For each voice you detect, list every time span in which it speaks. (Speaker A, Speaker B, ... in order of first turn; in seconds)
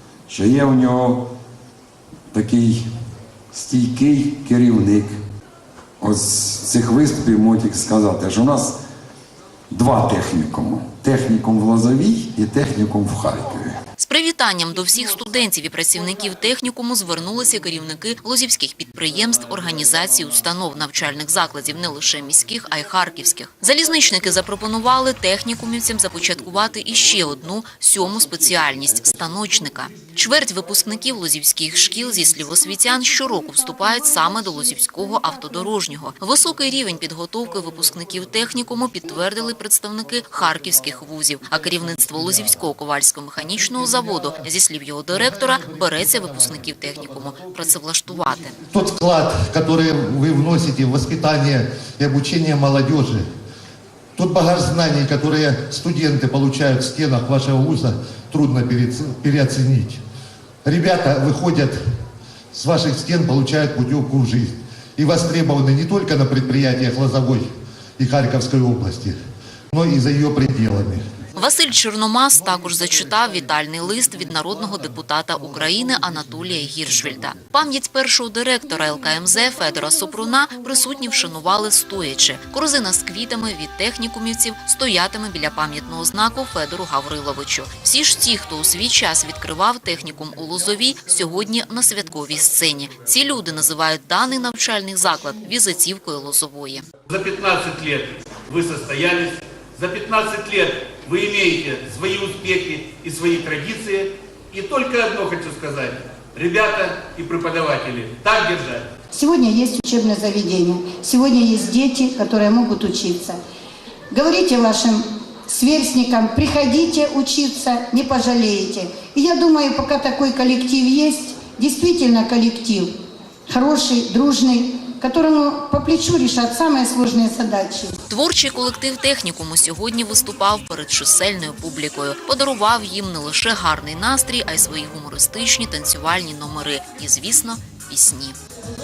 Speaker A: 0.3-1.2, 2.3-2.8, 3.5-5.2, 6.0-8.8, 9.7-13.8
Speaker B: 14.0-48.6, 71.4-96.8, 128.1-138.4
Speaker C: 45.5-46.8, 48.7-53.3, 54.2-60.0, 60.6-61.8, 62.5-69.2, 69.7-71.0
Speaker D: 97.1-108.9
Speaker E: 109.1-113.4, 114.1-122.9, 123.5-128.0